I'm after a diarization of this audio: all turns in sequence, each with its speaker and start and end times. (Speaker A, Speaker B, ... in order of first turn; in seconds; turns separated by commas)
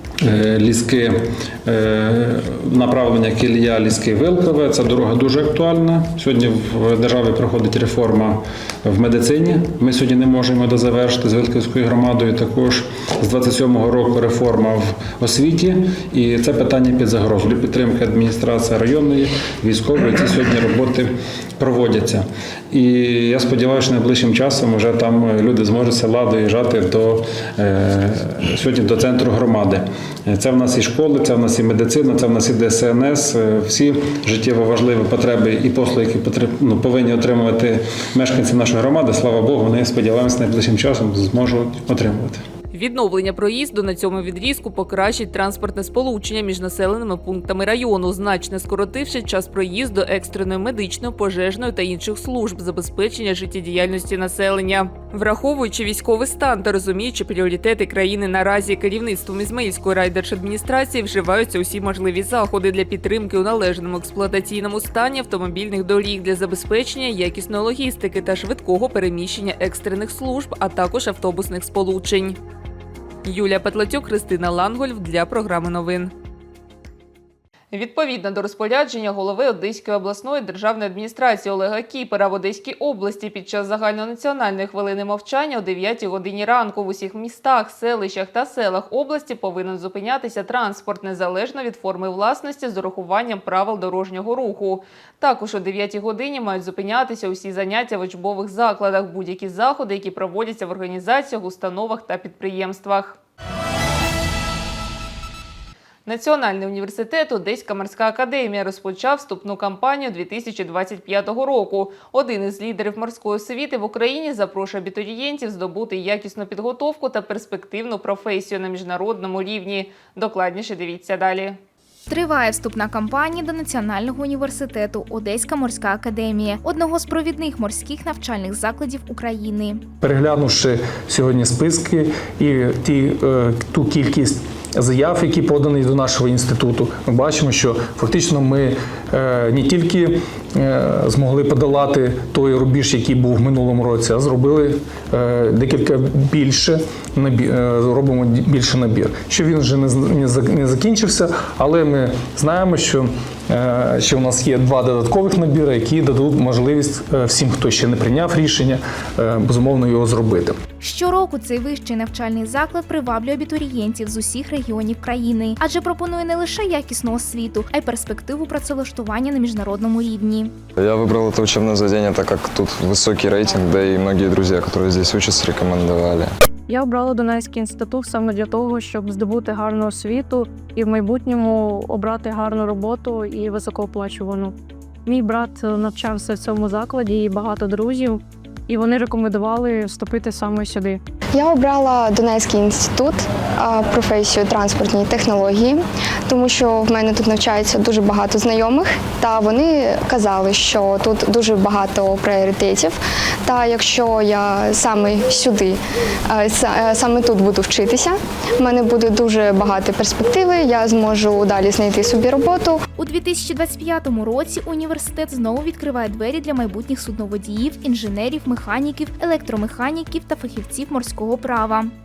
Speaker A: 0.2-42.4, Speaker B: 42.7-72.4, Speaker B: 73.2-76.1, Speaker B: 77.7-103.2, Speaker B: 106.0-121.6, Speaker C: 122.1-129.8, Speaker D: 130.0-160.6, Speaker C: 160.8-170.5, Speaker E: 170.8-176.2, Speaker F: 176.7-184.5, Speaker F: 185.1-191.0, Speaker G: 191.3-212.8, Speaker C: 213.0-221.9